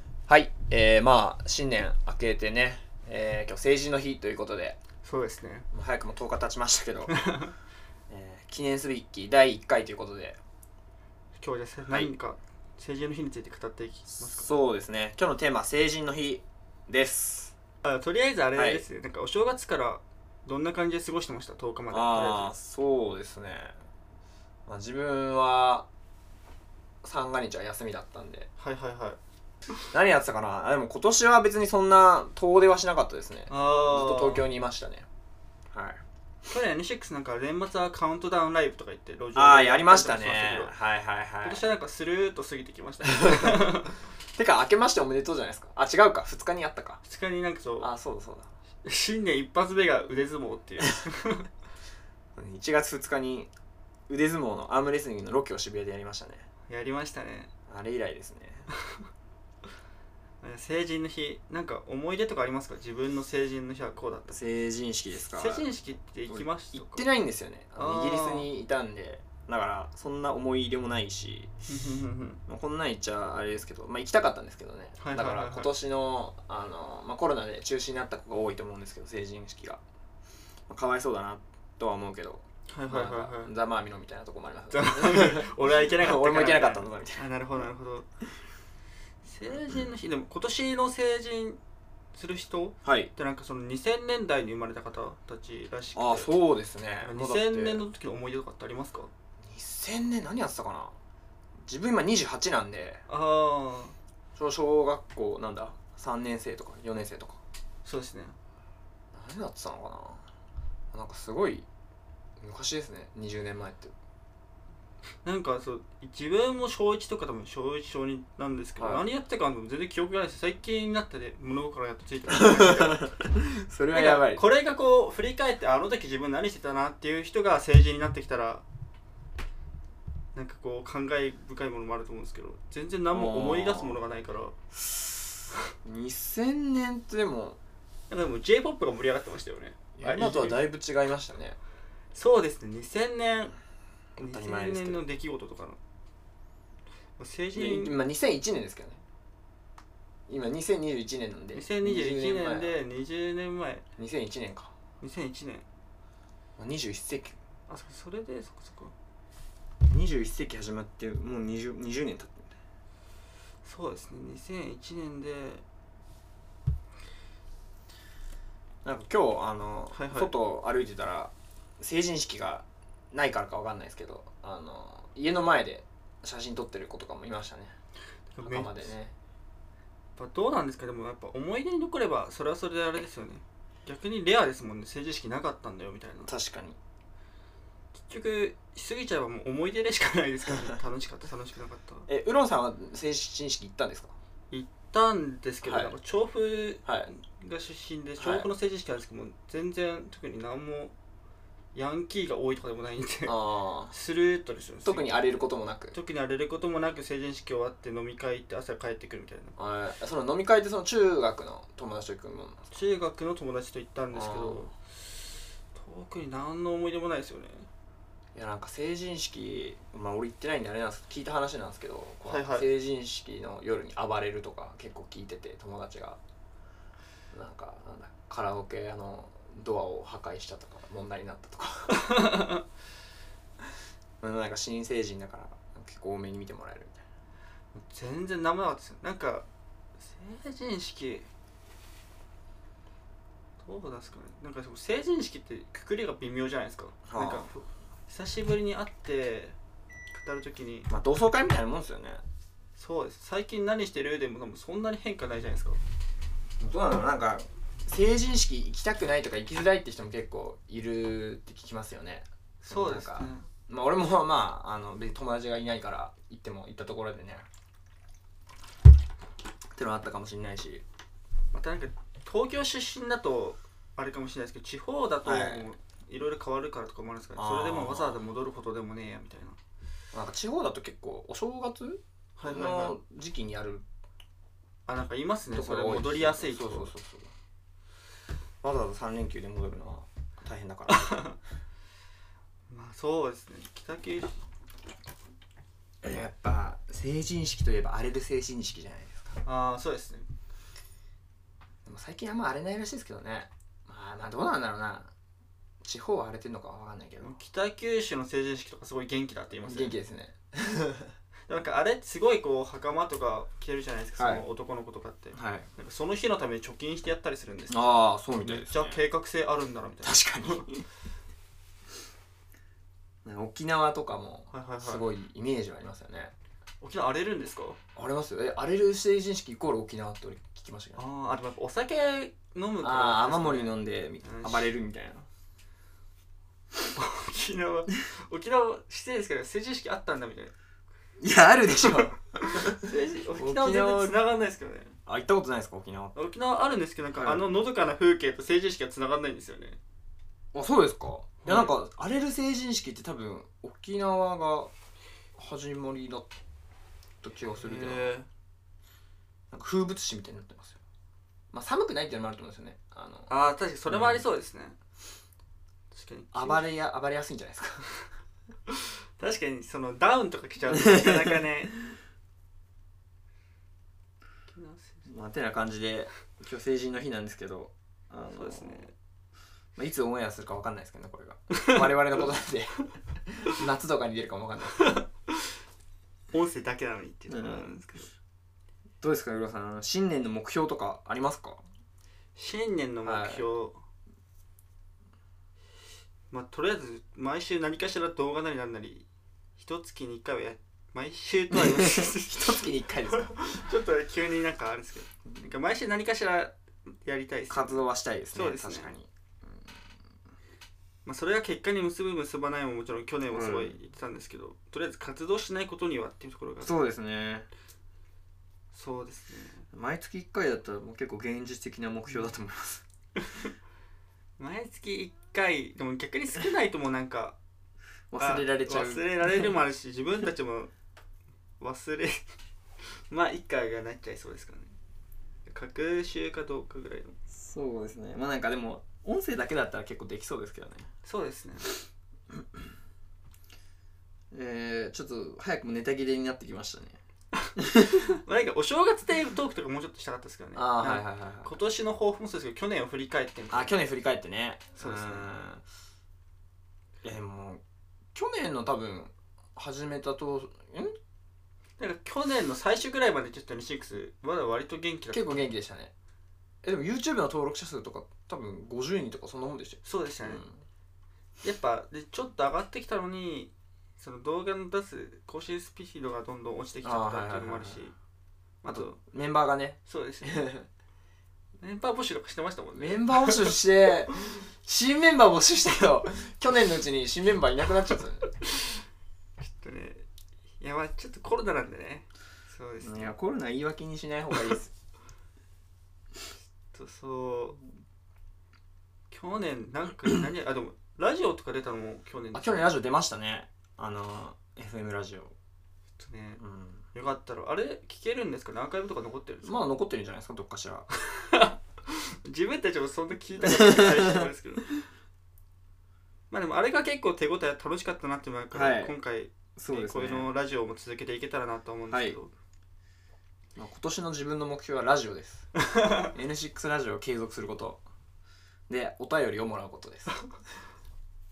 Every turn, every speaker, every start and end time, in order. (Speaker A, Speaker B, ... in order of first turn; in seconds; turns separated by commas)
Speaker A: 0.3-4.8, Speaker B: 5.0-5.7, Speaker A: 5.7-7.1, Speaker B: 7.1-7.5, Speaker A: 8.1-10.4, Speaker B: 11.4-14.5, Speaker A: 14.2-17.5, Speaker B: 17.8-22.5, Speaker A: 18.6-18.8, Speaker A: 21.9-23.8, Speaker A: 24.7-25.9, Speaker A: 27.0-28.5, Speaker B: 28.6-29.2, Speaker A: 29.9-35.0, Speaker B: 33.5-34.5, Speaker A: 35.7-36.0, Speaker B: 36.5-40.8, Speaker A: 39.4-41.6, Speaker B: 41.4-44.0, Speaker A: 43.1-43.7, Speaker A: 44.4-47.0, Speaker B: 47.0-47.9, Speaker A: 47.8-48.5, Speaker B: 48.8-51.5, Speaker A: 52.3-53.5, Speaker A: 54.1-56.5, Speaker B: 56.7-57.5, Speaker A: 57.7-58.7, Speaker B: 60.4-64.4, Speaker A: 64.3-65.7, Speaker B: 65.2-67.0, Speaker A: 66.3-71.5, Speaker B: 67.8-68.5, Speaker B: 71.7-72.4, Speaker A: 72.5-79.8, Speaker B: 75.0-75.7, Speaker A: 80.7-87.3, Speaker B: 82.7-83.5, Speaker B: 84.7-88.1, Speaker B: 89.2-91.6, Speaker A: 89.5-89.8, Speaker B: 92.1-96.3, Speaker A: 92.8-93.1, Speaker A: 96.0-97.8, Speaker B: 97.0-99.1, Speaker A: 99.4-101.0, Speaker A: 101.6-103.0, Speaker B: 103.1-104.0, Speaker A: 104.4-107.4, Speaker B: 107.8-108.4, Speaker A: 109.1-110.3, Speaker A: 110.9-111.7, Speaker A: 112.4-113.9, Speaker B: 115.2-123.1, Speaker A: 118.8-119.0, Speaker A: 122.3-124.4, Speaker B: 123.9-128.6, Speaker B: 130.3-134.5, Speaker A: 133.1-134.0, Speaker A: 134.9-135.2, Speaker A: 135.8-137.6, Speaker B: 138.1-140.6, Speaker A: 140.0-141.6, Speaker B: 142.1-143.5, Speaker A: 144.2-145.0, Speaker B: 144.2-145.8, Speaker B: 147.2-148.0, Speaker A: 147.5-149.0, Speaker A: 150.3-152.8, Speaker B: 151.5-153.8, Speaker A: 154.0-154.7, Speaker B: 155.0-155.7, Speaker A: 156.6-157.3, Speaker B: 157.7-158.9, Speaker A: 159.8-162.5, Speaker B: 163.6-165.6, Speaker A: 168.8-177.7, Speaker B: 169.9-170.3, Speaker B: 178.3-178.9, Speaker A: 178.4-179.2, Speaker B: 180.2-186.3, Speaker A: 186.2-186.8, Speaker B: 188.1-192.1, Speaker A: 192.1-194.2, Speaker B: 194.5-200.9, Speaker A: 195.6-195.9, Speaker A: 196.8-197.1, Speaker A: 198.2-198.5, Speaker B: 201.8-203.4, Speaker A: 203.2-203.9, Speaker B: 203.9-205.1, Speaker A: 204.8-206.0, Speaker B: 205.9-209.5, Speaker A: 209.6-212.7, Speaker B: 212.7-214.8, Speaker A: 214.1-214.7, Speaker B: 215.8-217.7, Speaker A: 218.3-226.2, Speaker B: 222.2-222.7, Speaker A: 227.3-232.3, Speaker B: 231.9-232.6, Speaker A: 234.2-237.0, Speaker B: 237.7-239.5, Speaker B: 240.0-241.3, Speaker B: 243.6-249.6, Speaker A: 247.1-247.5, Speaker B: 250.1-250.9, Speaker A: 250.9-252.2, Speaker B: 252.8-255.8, Speaker A: 256.6-267.5, Speaker B: 262.7-263.5, Speaker A: 269.8-270.8, Speaker B: 271.5-279.6, Speaker A: 275.2-275.7, Speaker A: 277.4-278.2, Speaker A: 280.1-283.8, Speaker B: 282.4-283.0, Speaker B: 284.9-286.9, Speaker A: 285.5-287.3, Speaker A: 288.6-291.3, Speaker B: 290.9-291.4, Speaker B: 292.7-294.4, Speaker A: 296.0-299.4, Speaker B: 299.4-300.2, Speaker A: 301.9-305.1, Speaker A: 305.8-307.4, Speaker B: 307.2-309.9, Speaker A: 309.6-311.1, Speaker B: 311.5-317.8, Speaker A: 314.2-314.4, Speaker A: 315.3-315.7, Speaker A: 317.7-319.0, Speaker B: 318.4-320.8, Speaker A: 320.0-320.8, Speaker A: 323.2-326.3, Speaker B: 324.5-325.0, Speaker B: 326.8-327.8, Speaker A: 328.0-331.0, Speaker B: 331.0-334.7, Speaker A: 332.8-335.2, Speaker B: 336.9-340.5, Speaker A: 341.2-344.2, Speaker B: 342.5-345.0, Speaker A: 345.1-346.1, Speaker B: 346.1-349.8, Speaker A: 347.1-347.5, Speaker A: 350.5-354.7, Speaker B: 351.4-351.7, Speaker A: 355.4-356.3, Speaker A: 357.2-358.1, Speaker B: 357.5-358.3, Speaker A: 359.5-360.8, Speaker A: 361.5-363.3, Speaker B: 363.3-364.8, Speaker A: 363.9-364.2, Speaker B: 365.9-366.6, Speaker A: 366.3-367.9, Speaker B: 368.7-371.8, Speaker A: 370.7-371.4, Speaker B: 374.5-375.1, Speaker A: 375.1-378.9, Speaker B: 378.3-378.9, Speaker A: 379.8-385.0, Speaker B: 384.8-385.0, Speaker B: 386.3-388.1, Speaker A: 387.3-387.7, Speaker A: 389.0-391.6, Speaker B: 392.4-393.8, Speaker A: 393.0-393.5, Speaker B: 396.3-399.0, Speaker B: 399.6-408.9, Speaker A: 401.5-403.3, Speaker A: 407.5-409.1, Speaker B: 411.1-416.7, Speaker A: 413.3-413.8, Speaker A: 416.6-417.5, Speaker B: 418.7-419.6, Speaker A: 419.7-422.8, Speaker B: 424.4-427.4, Speaker A: 428.1-429.5, Speaker B: 428.2-430.7, Speaker B: 431.6-432.2, Speaker B: 433.0-434.8, Speaker B: 435.5-437.1, Speaker A: 437.3-440.9, Speaker B: 441.0-441.8, Speaker A: 444.3-447.0, Speaker B: 447.4-453.8, Speaker A: 447.7-448.0, Speaker A: 450.5-451.6, Speaker A: 453.5-455.6, Speaker B: 454.8-455.3, Speaker A: 457.0-457.6, Speaker A: 458.1-460.9, Speaker B: 461.8-465.5, Speaker A: 465.1-465.9, Speaker A: 466.6-470.5, Speaker B: 469.8-470.4, Speaker B: 471.4-477.9, Speaker A: 476.8-477.8, Speaker B: 478.6-479.0, Speaker A: 478.7-480.7, Speaker B: 479.9-480.5, Speaker B: 481.6-483.6, Speaker A: 482.8-488.3, Speaker B: 488.4-488.8, Speaker B: 489.4-490.0, Speaker B: 490.6-493.1, Speaker A: 492.8-494.7, Speaker B: 496.7-497.6, Speaker B: 499.1-502.7, Speaker A: 502.3-505.3, Speaker B: 506.0-506.4, Speaker A: 506.4-506.8, Speaker B: 506.9-509.6, Speaker A: 509.4-510.9, Speaker B: 511.1-514.8, Speaker A: 513.4-514.3, Speaker B: 516.3-522.3, Speaker A: 518.5-519.0, Speaker A: 519.5-520.3, Speaker A: 521.9-522.2, Speaker A: 523.5-527.8, Speaker B: 525.6-526.1, Speaker A: 528.7-530.2